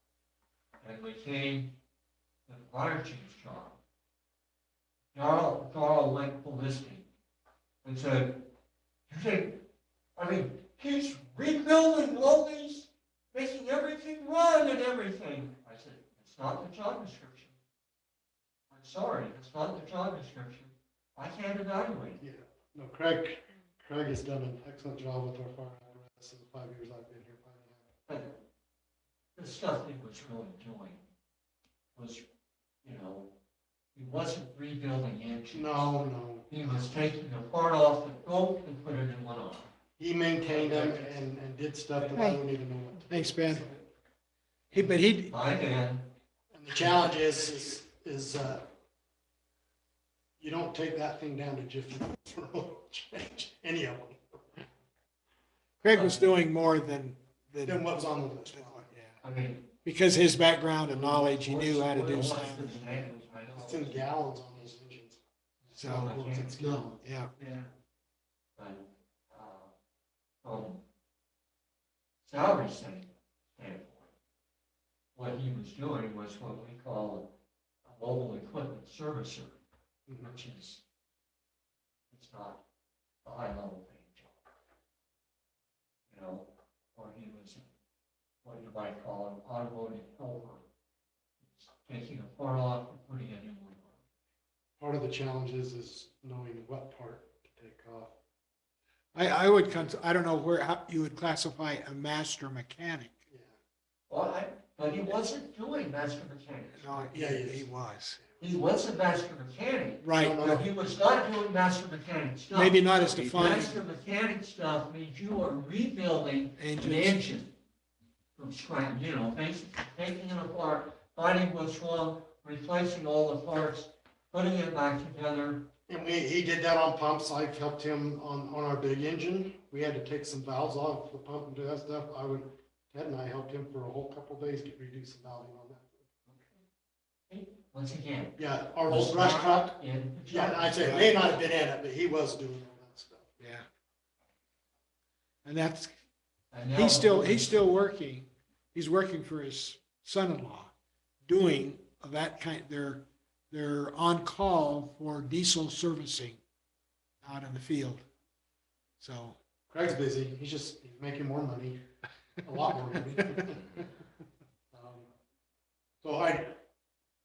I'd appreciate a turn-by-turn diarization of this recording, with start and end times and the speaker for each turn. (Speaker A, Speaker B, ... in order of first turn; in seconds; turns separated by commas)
Speaker A: 0.8-1.7, Speaker A: 2.5-3.8, Speaker A: 5.1-7.1, Speaker A: 7.8-8.5, Speaker A: 9.1-9.6, Speaker A: 10.2-17.5, Speaker A: 18.7-22.2, Speaker B: 22.2-27.8, Speaker A: 28.1-28.4, Speaker A: 29.4-31.0, Speaker A: 31.9-32.2, Speaker A: 32.8-33.3, Speaker A: 33.9-35.9, Speaker B: 35.5-36.5, Speaker A: 36.5-39.7, Speaker B: 40.0-43.8, Speaker A: 40.5-41.1, Speaker A: 41.9-42.4, Speaker C: 43.1-43.6, Speaker C: 44.7-45.3, Speaker A: 44.7-46.1, Speaker B: 46.5-48.7, Speaker A: 46.8-47.6, Speaker B: 50.4-54.2, Speaker C: 55.8-57.8, Speaker A: 55.9-56.4, Speaker B: 57.6-58.9, Speaker C: 58.5-59.2, Speaker A: 59.2-59.7, Speaker C: 59.8-62.7, Speaker A: 60.9-64.8, Speaker B: 63.5-65.2, Speaker A: 65.6-66.6, Speaker B: 65.7-67.0, Speaker C: 65.8-67.3, Speaker A: 67.4-67.7, Speaker A: 68.6-69.7, Speaker A: 70.4-70.8, Speaker A: 72.2-74.1, Speaker A: 75.1-77.3, Speaker A: 77.8-79.6, Speaker B: 80.1-80.4, Speaker A: 80.2-80.8, Speaker A: 82.1-82.6, Speaker A: 83.2-84.3, Speaker A: 86.1-87.7, Speaker A: 88.4-90.6, Speaker A: 91.4-94.0, Speaker B: 94.8-98.1, Speaker C: 99.1-103.2, Speaker A: 104.1-107.1, Speaker C: 106.7-108.2, Speaker B: 107.1-108.5, Speaker A: 108.4-117.5, Speaker C: 110.0-110.4, Speaker B: 110.2-110.7, Speaker C: 112.5-113.8, Speaker C: 116.6-117.2, Speaker A: 118.3-125.7, Speaker B: 125.9-136.0, Speaker A: 136.3-136.6, Speaker A: 137.3-141.2, Speaker B: 138.4-143.2, Speaker C: 140.8-141.1, Speaker C: 143.4-143.6, Speaker C: 145.4-145.9, Speaker A: 146.5-147.7, Speaker C: 146.7-150.7, Speaker C: 151.2-156.4, Speaker C: 157.2-158.0, Speaker C: 159.0-159.4, Speaker B: 159.7-161.8, Speaker B: 162.4-163.6, Speaker B: 164.7-165.1, Speaker B: 166.0-166.6